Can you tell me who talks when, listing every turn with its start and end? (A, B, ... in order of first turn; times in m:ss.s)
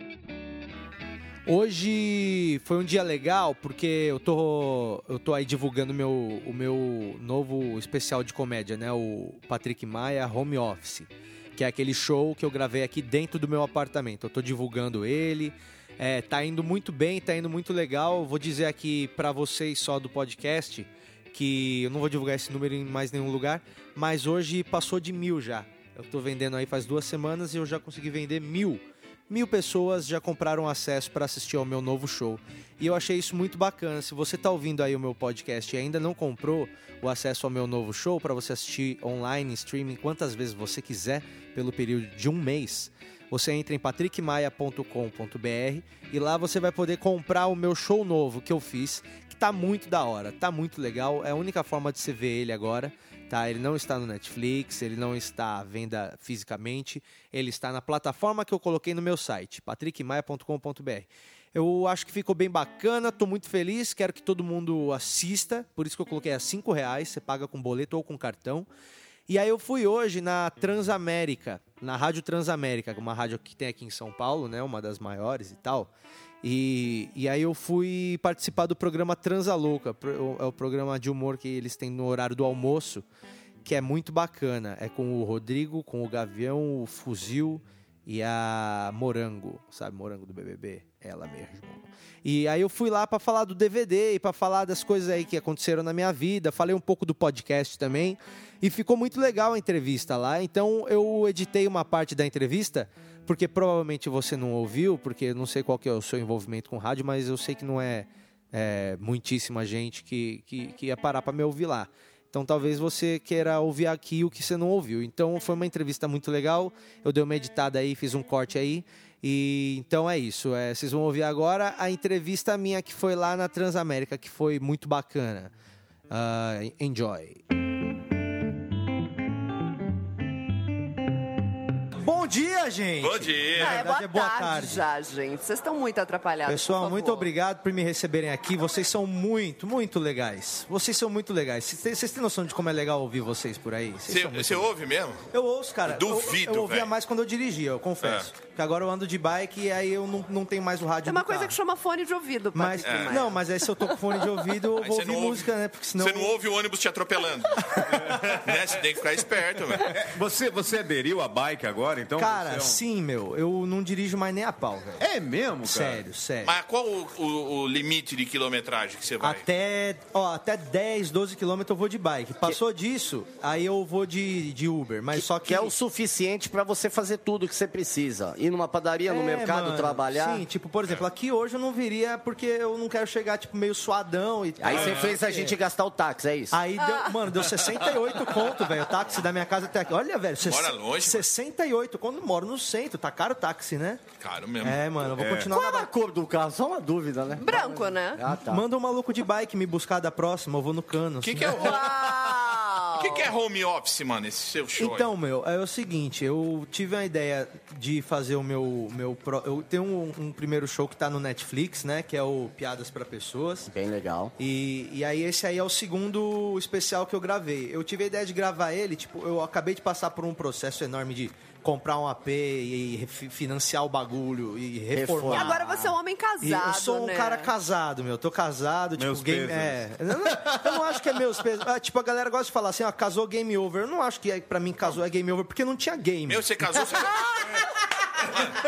0:01.5-1:08.7 A
1:09.3-1:15.9 A
1:16.4-1:23.0 A
1:23.6-2:05.5 A
2:06.1-2:07.4 A
2:12.0-2:14.8 A
2:13.0-2:13.9 B
2:13.6-2:17.3 C
2:16.5-2:24.7 A
2:24.1-2:25.2 B
2:25.3-2:31.6 A
2:25.9-2:26.9 B
2:28.0-2:28.3 B
2:31.0-2:33.5 C
2:32.5-2:36.4 A
2:32.8-2:33.2 B
2:34.8-2:40.0 B
2:39.8-2:42.8 D
2:42.2-2:45.0 A
2:45.0-2:46.0 D
2:45.6-2:46.6 A
2:46.4-2:49.4 B
2:49.2-2:55.7 A
2:55.2-3:00.4 E
2:59.1-3:05.6 A
3:04.6-3:06.6 E
3:04.8-3:05.0 B
3:06.5-3:14.0 A
3:06.8-3:07.2 C
3:10.4-3:11.3 B
3:14.2-3:14.8 B
3:14.6-3:15.9 A
3:15.2-3:15.5 D
3:15.5-3:18.6 E
3:17.4-3:18.2 C
3:18.3-3:21.7 A
3:21.2-3:22.4 B
3:21.5-3:23.3 C
3:23.0-3:25.1 B
3:24.8-3:33.7 A
3:33.7-3:34.3 E
3:34.4-3:45.7 A
3:44.9-3:45.8 E
3:45.3-3:47.5 C
3:46.4-3:56.9 A
3:49.0-3:50.6 D
3:56.3-3:57.6 B
3:58.3-3:58.6 B